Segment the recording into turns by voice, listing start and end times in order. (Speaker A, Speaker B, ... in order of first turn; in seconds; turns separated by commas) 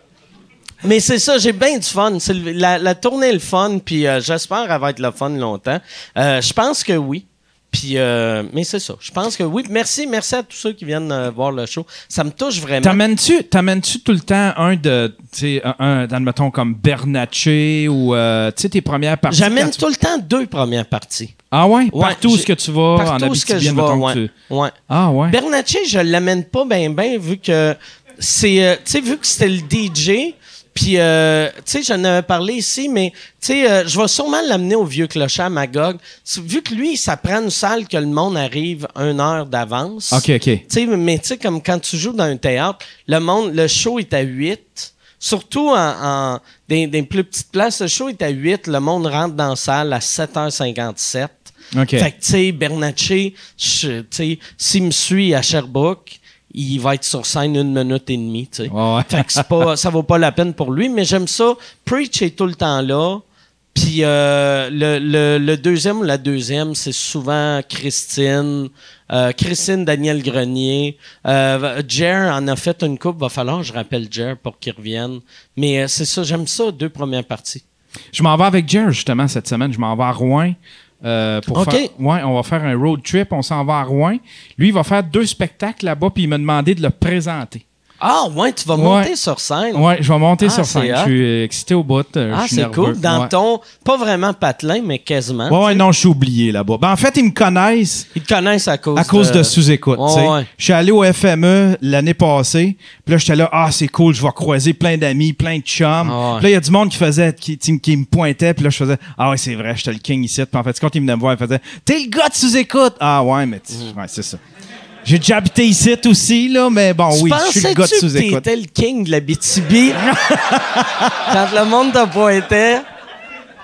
Speaker A: 0.8-13.0, Speaker B: 12.8-19.8, Speaker A: 19.3-21.4, Speaker B: 21.5-24.3, Speaker A: 21.9-24.8, Speaker B: 24.9-25.4, Speaker A: 25.3-63.2, Speaker B: 40.1-40.6, Speaker B: 51.7-52.1, Speaker B: 58.7-59.5, Speaker A: 63.7-77.6, Speaker B: 78.1-87.6, Speaker A: 81.5-81.9, Speaker A: 88.0-89.8, Speaker B: 88.8-89.1, Speaker B: 89.7-93.3, Speaker A: 90.4-91.1, Speaker A: 92.3-95.8, Speaker B: 95.5-98.1, Speaker A: 98.2-100.5, Speaker B: 99.0-114.4, Speaker A: 106.0-106.5, Speaker B: 115.0-118.4, Speaker A: 117.1-120.2, Speaker B: 120.6-120.8, Speaker A: 121.2-122.9